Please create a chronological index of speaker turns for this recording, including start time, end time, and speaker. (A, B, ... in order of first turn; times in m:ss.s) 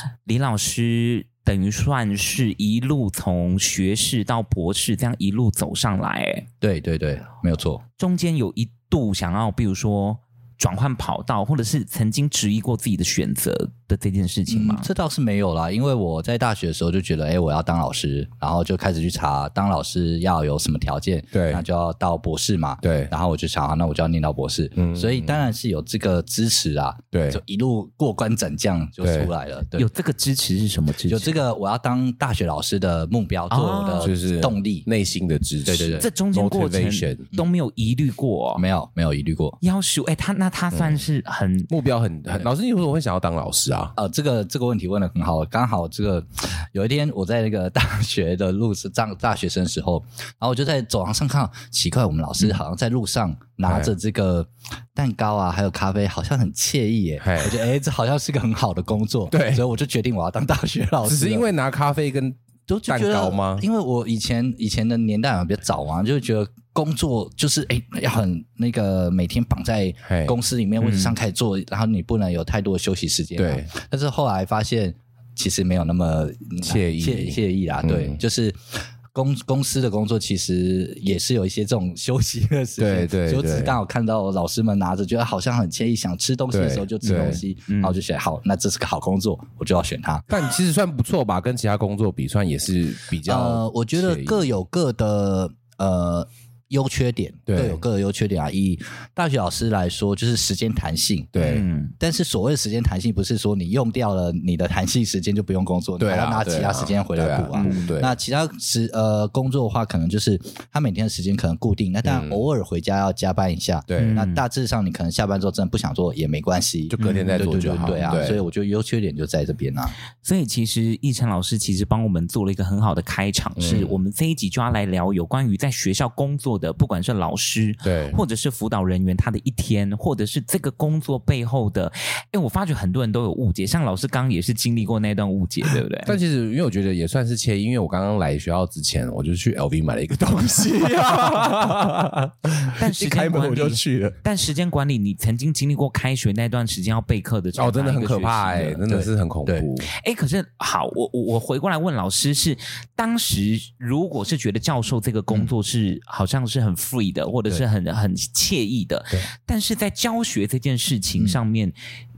0:00.3-0:06.5 A
0:06.6-0:07.8 B
0:08.0-0:14.9 A
0:14.5-0:29.9 B
0:21.3-0:21.6 C
0:22.8-0:23.1 C
0:24.8-0:25.4 C
0:27.1-0:27.4 C
0:29.0-0:29.3 C
0:29.8-0:31.4 A
0:31.1-0:34.9 B
0:33.5-0:34.1 A
0:34.0-0:37.3 C
0:35.7-0:36.1 B
0:36.0-0:38.6 A
0:38.6-0:39.6 B
0:39.6-0:41.7 A
0:40.8-0:41.0 C
0:41.7-0:44.0 C
0:44.0-1:01.5 B
0:53.6-0:53.9 C
0:57.2-0:57.6 C
0:59.3-0:59.6 C
1:01.0-1:03.6 C
1:02.7-1:30.2 B
1:10.1-1:10.4 C
1:10.8-1:11.1 A
1:13.4-1:13.7 C
1:16.6-1:18.2 C
1:22.8-1:23.7 C
1:26.5-1:27.4 C
1:27.1-1:28.0 A
1:30.3-1:34.5 C
1:33.3-1:59.9 B
1:37.5-1:37.8 C
1:41.4-1:41.7 C
1:41.4-1:41.9 A
1:46.0-1:48.2 C
1:47.5-1:47.9 A
1:52.0-1:52.4 C
1:53.9-1:54.2 C
1:54.0-1:54.4 A
1:56.9-1:58.4 C
1:57.0-1:58.1 A
2:00.2-2:16.2 A
2:03.6-2:04.0 C
2:07.8-2:08.2 C
2:16.1-2:24.2 C
2:22.8-2:28.8 A
2:27.6-2:29.9 C
2:28.9-2:29.7 B
2:29.9-2:41.8 A